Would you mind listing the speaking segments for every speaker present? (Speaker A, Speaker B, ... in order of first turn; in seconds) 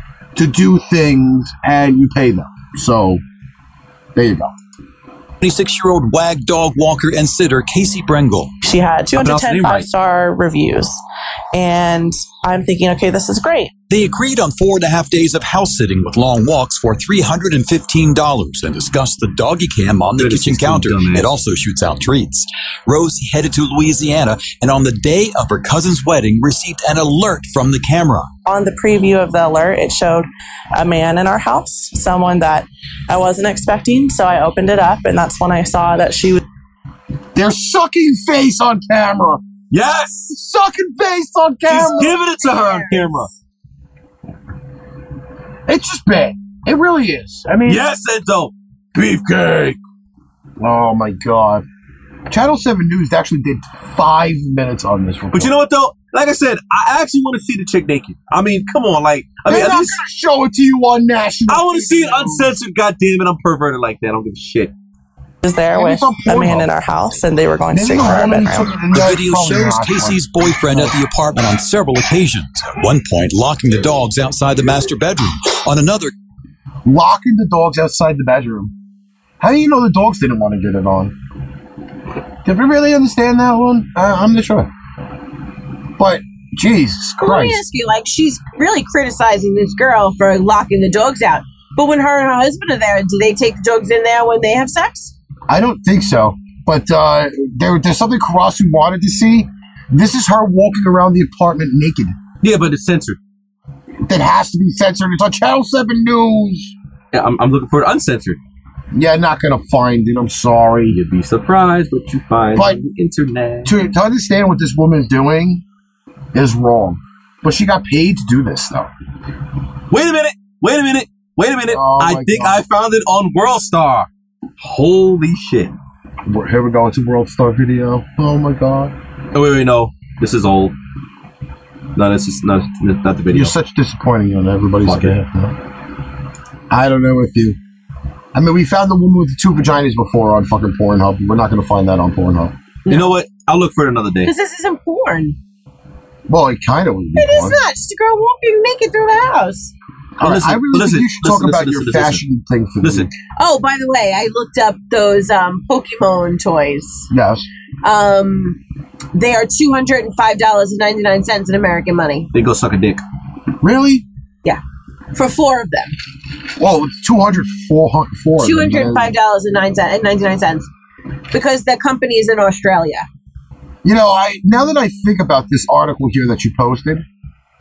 Speaker A: 0.3-3.2, 4.1-4.5, 37.3-39.4, 40.3-42.2, 45.7-47.9, 50.6-51.6, 52.3-55.5, 59.5-62.6, 65.7-66.7, 67.7-71.0, 76.8-78.7, 79.4-81.1, 82.4-84.7, 86.0-87.6, 95.5-102.2, 104.0-106.7, 108.9-111.0, 113.6-115.6, 116.3-118.9, 121.7-122.6, 126.3-128.9, 133.3-135.6, 136.7-137.6, 138.3-142.5, 146.3-147.6, 150.2-153.1, 157.1-157.5, 163.6-164.1, 166.6-169.1, 173.8-177.0
Speaker B: 5.4-8.5, 13.9-28.3, 68.9-76.1
Speaker C: 8.6-11.0, 11.5-13.7, 28.4-36.4, 65.4-68.8
Speaker D: 9.2-9.9, 20.2-21.3, 39.7-40.3, 41.7-43.3, 47.6-49.8, 55.3-60.0, 61.5-64.7, 102.4-103.2, 107.1-108.4, 110.9-113.8, 119.9-124.1, 124.6-125.8, 129.3-130.7, 131.9-133.5, 134.8-135.1, 142.9-144.3, 150.2-152.2, 152.8-153.1, 162.3-163.0
Speaker E: 42.0-43.3, 87.2-95.1, 144.2-145.4, 147.1-149.7, 153.4-157.1, 157.8-158.6, 159.1-162.3, 165.1-165.9, 168.4-170.7, 171.3-173.1